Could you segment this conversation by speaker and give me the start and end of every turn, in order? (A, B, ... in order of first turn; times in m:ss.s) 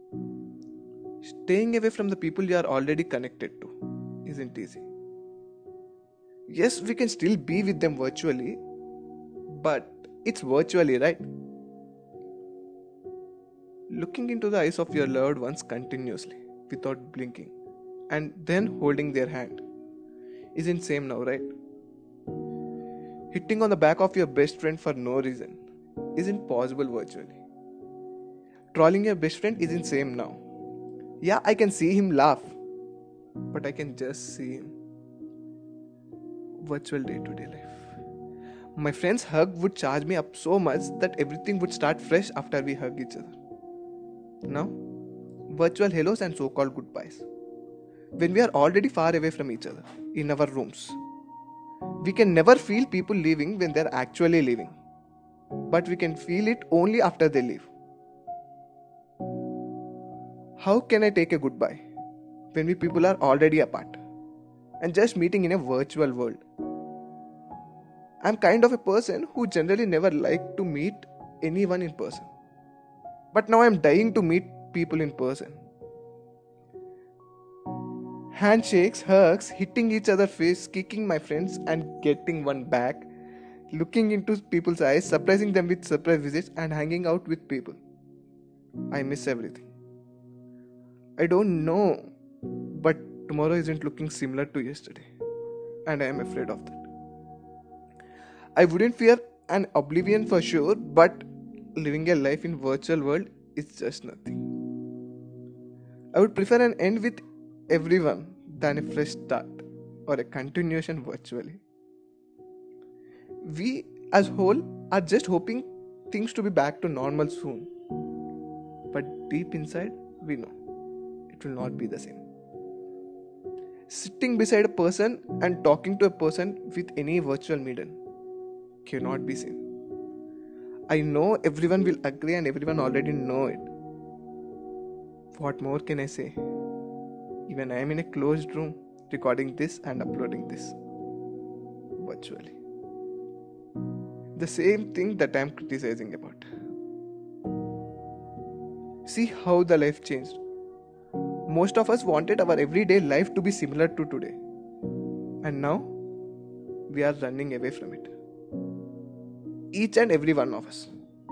0:01.2-0:04.9 A
0:06.5-0:08.6 A
0:09.5-0:11.3 A
0:13.9-0:17.5 A
0:18.1-0:19.6 A
0:20.6-0:21.5 A
0:23.3-0:25.6 A
0:26.2-0:27.4 A
0:28.7-0:30.4 A
0:31.2-0:32.6 A
0:33.5-0:34.7 A
0:36.6-0:38.0 A
0:38.8-0:43.4 A
0:44.5-0:44.8 A
0:45.5-0:47.3 A
0:48.2-0:51.0 A
0:52.0-0:54.8 A
0:55.7-0:57.7 A
1:00.6-1:01.8 A
1:02.5-1:04.0 A
1:04.8-1:06.4 A
1:08.2-1:12.3 A
1:13.3-1:15.6 A
1:18.3-1:23.1 A
1:23.7-1:27.8 A
1:28.9-1:29.7 A
1:31.2-1:32.1 A
1:32.7-1:35.1 A
1:35.9-1:36.9 A
1:38.6-1:44.5 A
1:46.1-1:51.6 A
1:53.4-1:57.7 A
1:58.9-2:00.5 A
2:01.3-2:02.2 A
2:03.9-2:08.0 A
2:08.8-2:09.7 A
2:10.9-2:13.7 A
2:15.3-2:16.4 A
2:17.5-2:20.8 A
2:22.0-2:22.6 A
2:24.4-2:26.4 A
2:29.0-2:30.4 A
2:31.5-2:34.4 A
2:35.4-2:36.0 A
2:36.9-2:38.1 A
2:39.7-2:40.9 A